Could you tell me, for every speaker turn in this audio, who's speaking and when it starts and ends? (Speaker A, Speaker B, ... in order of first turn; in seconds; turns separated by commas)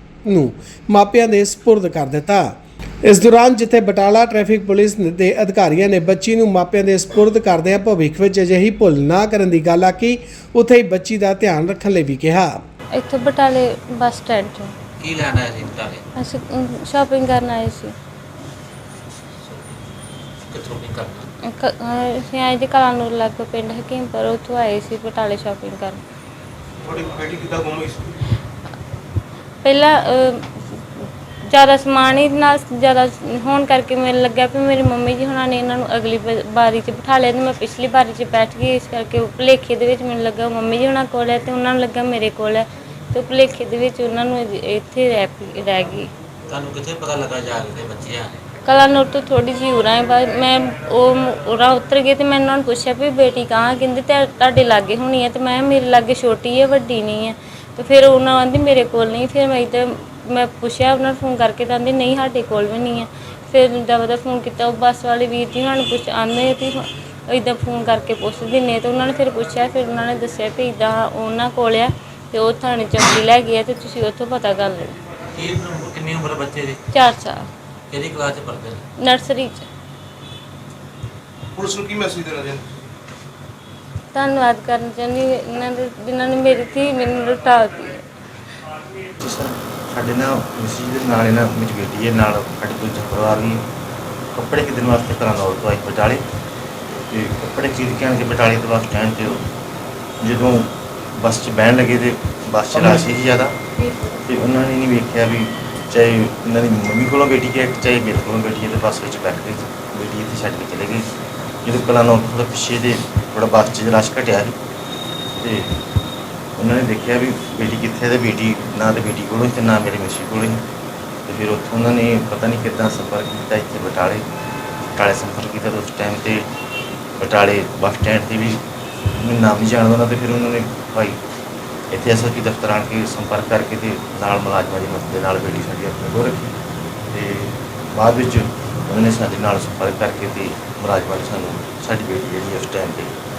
Speaker A: 0.2-2.5, Speaker A: 3.0-12.6, Speaker B: 12.9-14.7, Speaker C: 15.0-16.0, Speaker B: 16.2-17.9, Speaker C: 20.5-21.3, Speaker B: 21.4-26.0, Speaker D: 26.8-28.1, Speaker B: 29.6-30.6, Speaker B: 31.5-46.1, Speaker C: 46.5-48.3, Speaker B: 48.6-74.9, Speaker C: 75.4-76.8, Speaker B: 76.9-77.5, Speaker C: 77.9-78.8, Speaker B: 79.0-79.6, Speaker D: 81.5-82.7, Speaker B: 84.1-88.0, Speaker E: 89.2-93.6, Speaker E: 94.3-96.2, Speaker E: 97.1-99.5, Speaker E: 100.2-111.0, Speaker E: 111.6-114.5, Speaker E: 115.4-115.7, Speaker E: 116.6-120.6, Speaker E: 121.2-124.2, Speaker E: 124.9-126.4, Speaker E: 127.2-128.6, Speaker E: 129.2-131.2, Speaker E: 131.9-136.6, Speaker E: 137.1-143.2